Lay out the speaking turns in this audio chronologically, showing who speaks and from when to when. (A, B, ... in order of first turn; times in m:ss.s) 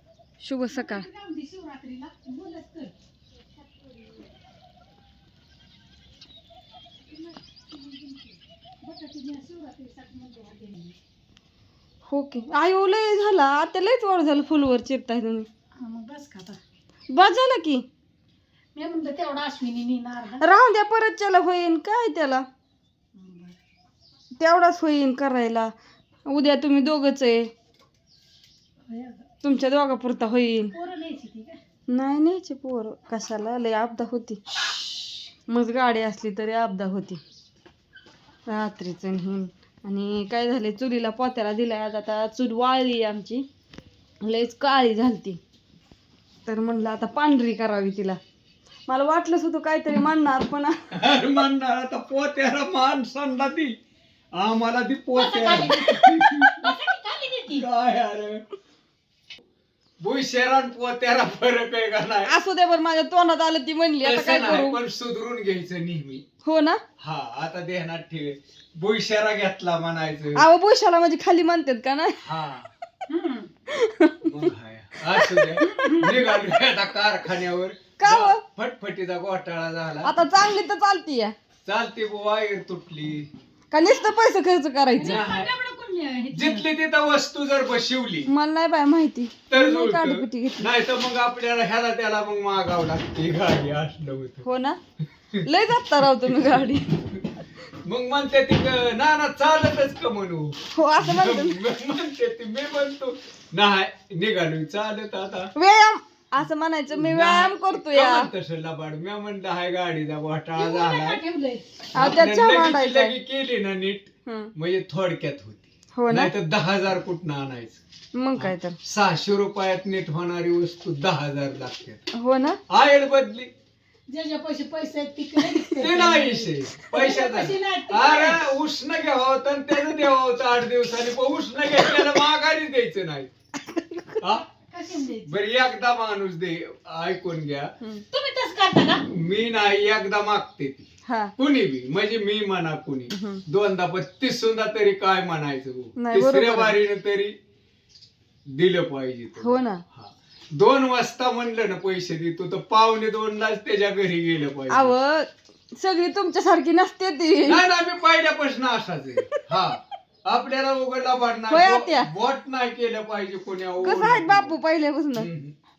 0:00.4-0:01.1 A
0:00.7-0:02.9 B
0:03.6-0:04.3 B
0:07.1-0:11.0 B
0:12.0-0:15.5 A
0:15.8-0:16.6 B
0:17.1-0:17.8 A
0:18.7-0:20.4 B
0:20.4-0:22.4 A
0:23.1-0:23.6 B
0:24.4-0:25.7 A
0:26.3-0:27.5 A
0:28.9-0:29.2 B
0:29.4-0:30.7 A
0:30.7-0:31.6 B
0:31.9-0:34.6 A
0:35.5-0:37.2 A
0:38.5-0:43.4 A
0:44.2-0:45.4 A
0:46.4-0:48.2 A
0:48.9-0:50.9 A
0:50.9-0:53.7 C
0:54.3-0:56.7 C
0:55.1-0:57.7 B
0:57.5-0:58.4 C
1:00.0-1:02.3 C
1:02.3-1:04.8 A
1:04.0-1:06.2 C
1:06.4-1:06.8 A
1:07.0-1:10.4 C
1:10.3-1:12.2 A
1:12.2-1:12.7 C
1:13.1-1:13.5 B
1:13.7-1:16.1 A
1:14.2-1:20.2 C
1:15.6-1:16.2 B
1:18.0-1:18.4 A
1:20.0-1:21.3 A
1:21.6-1:23.3 C
1:23.7-1:25.2 A
1:24.9-1:26.6 B
1:25.0-1:25.5 C
1:26.3-1:28.3 C
1:28.3-1:30.7 A
1:29.5-1:34.4 C
1:34.4-1:34.8 A
1:35.4-1:36.9 A
1:36.2-1:37.2 C
1:37.8-1:45.5 C
1:40.7-1:41.6 A
1:45.6-1:48.3 A
1:46.9-1:51.2 C
1:50.6-1:51.6 B
1:51.9-1:53.1 A
1:51.9-1:57.8 C
1:54.2-1:54.5 A
1:55.9-1:56.3 A
1:58.1-1:58.8 A
1:58.4-2:02.0 C
2:02.1-2:02.6 A
2:02.7-2:03.5 C
2:04.1-2:08.4 B
2:05.6-2:13.3 C
2:13.8-2:14.2 A
2:14.2-2:14.5 C
2:14.6-2:15.4 B
2:15.2-2:17.7 C
2:18.1-2:19.0 B
2:19.1-2:27.3 C
2:21.0-2:21.3 A
2:23.1-2:23.4 A
2:26.0-2:26.8 A
2:28.4-2:35.0 C
2:29.4-2:29.8 A
2:34.7-2:37.6 A
2:37.4-2:44.6 C
2:39.3-2:39.8 A
2:41.5-2:42.1 A
2:43.8-2:45.3 A
2:45.1-2:45.5 C